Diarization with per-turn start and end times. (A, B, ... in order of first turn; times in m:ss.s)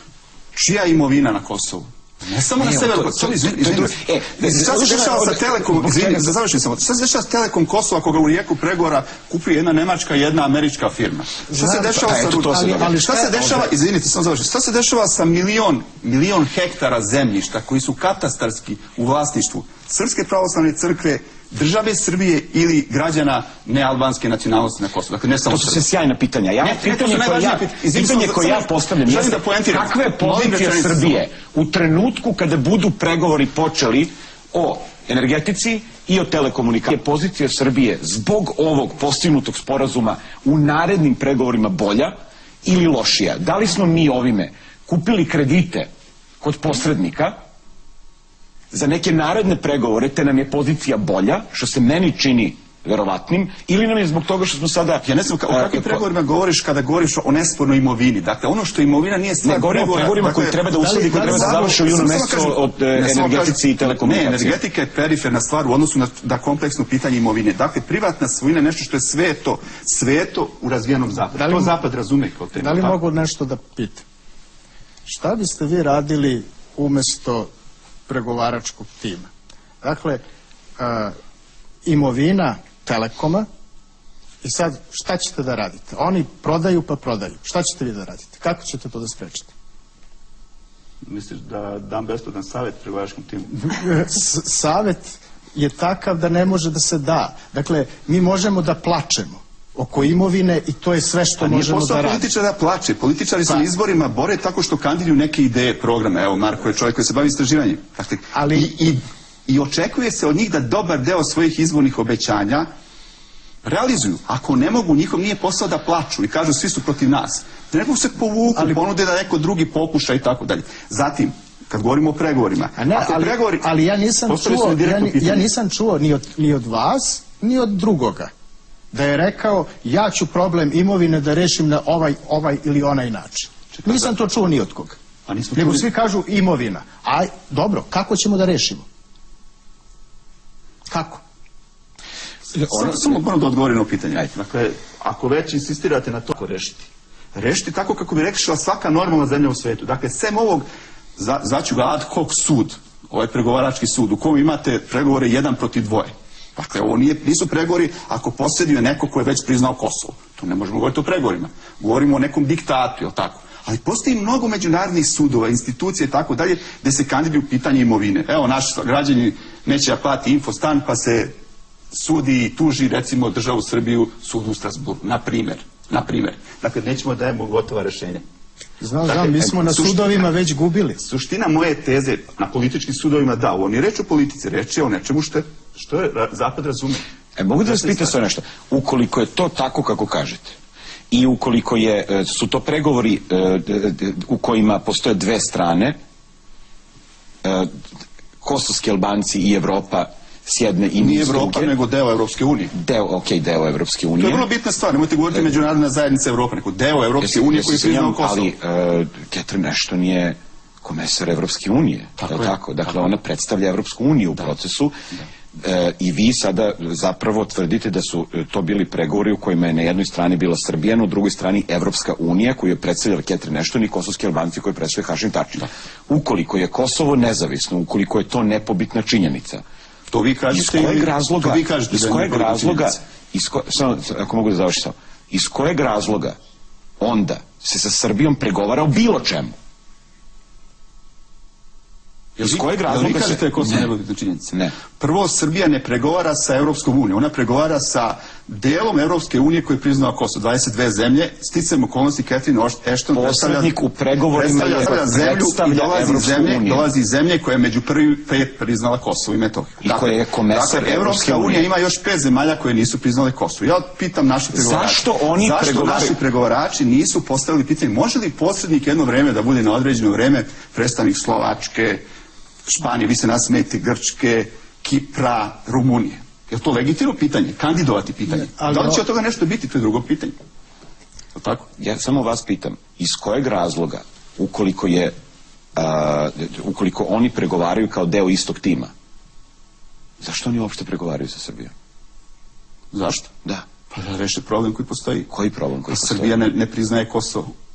0:00.5-0:25.8 A
0:02.6-0:06.3 B
0:11.5-0:13.7 C
0:11.9-0:13.0 B
0:25.5-0:45.9 B
0:26.6-0:31.2 A
0:46.4-0:47.4 B
0:48.7-0:56.0 B
0:55.0-1:13.0 A
0:59.4-1:04.6 B
1:00.8-1:01.8 C
1:11.3-1:11.8 C
1:12.6-1:14.0 C
1:15.1-1:17.5 C
1:18.1-1:19.3 C
1:19.8-1:20.2 C
1:20.8-1:21.2 C
1:21.8-1:23.5 C
1:24.4-1:29.5 C
1:31.0-1:33.8 A
1:33.6-1:42.3 C
1:41.4-1:52.7 A
1:48.3-1:48.7 C
1:53.6-2:03.7 A
1:58.6-1:58.8 C
2:02.8-2:08.3 C
2:04.3-2:05.5 A
2:08.9-2:15.0 C
2:13.7-2:14.1 A
2:15.3-2:15.9 A
2:15.6-2:18.8 C
2:20.9-2:21.2 C
2:22.6-2:30.7 A
2:22.7-2:23.1 B
2:31.2-2:51.3 A
2:51.9-2:58.2 A
2:58.8-3:01.0 C
2:59.0-3:00.3 A
3:01.0-3:07.0 A
3:07.4-3:10.6 B
3:07.6-3:08.2 A
3:11.1-3:16.0 B
3:17.4-3:17.8 B
3:18.4-3:21.7 B
3:21.0-3:22.7 A
3:22.7-3:24.4 B
3:24.2-3:28.5 A
3:27.2-3:35.0 B
3:32.2-3:33.1 A
3:35.6-3:49.6 B
3:50.1-3:53.0 A
3:50.5-3:56.4 B
3:57.0-3:59.6 B
4:02.4-4:13.7 A
4:02.4-4:03.9 B
4:13.1-4:16.9 B
4:14.3-4:32.0 A
4:19.8-4:21.7 B
4:24.5-4:26.2 B
4:32.6-4:40.4 A
4:38.3-4:39.0 C
4:41.4-4:41.7 A
4:41.8-4:45.1 B
4:45.8-4:48.9 B
4:50.2-4:51.7 B
4:52.9-4:53.3 A
4:53.9-4:55.3 A
4:55.3-4:56.3 B
4:55.9-4:57.5 A